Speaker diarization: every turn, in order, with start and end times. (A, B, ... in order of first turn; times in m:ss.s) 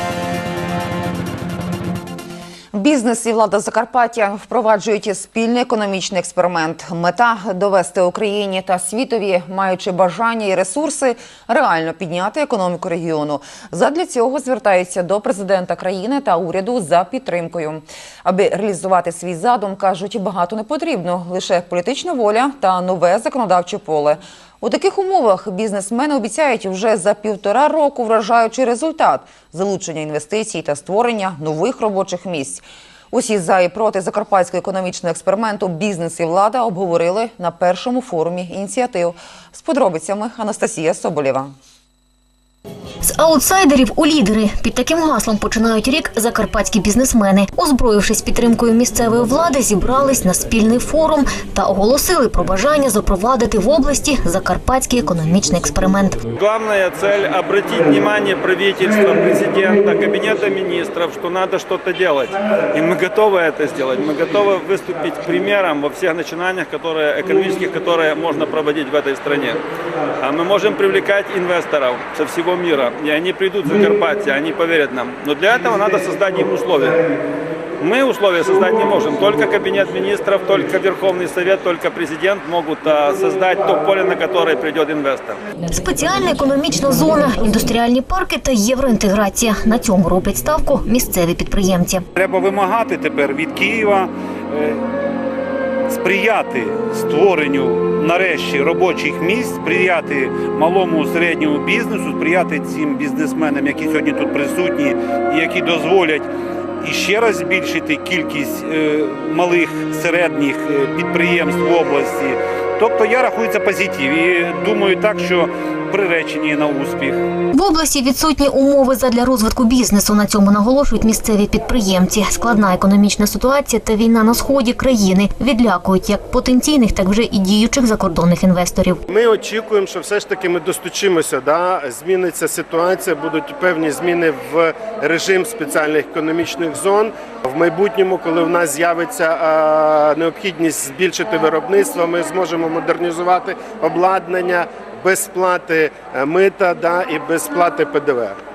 0:02.7-0:41.5 A
0:43.0-0:56.2 B
0:56.4-1:09.6 C
1:10.2-1:17.0 C
1:17.8-1:25.4 C
1:25.7-1:32.0 B
1:32.1-1:34.8 D
1:35.9-1:46.3 D
1:46.8-1:57.2 D
1:57.5-2:09.0 B
2:09.1-2:28.3 E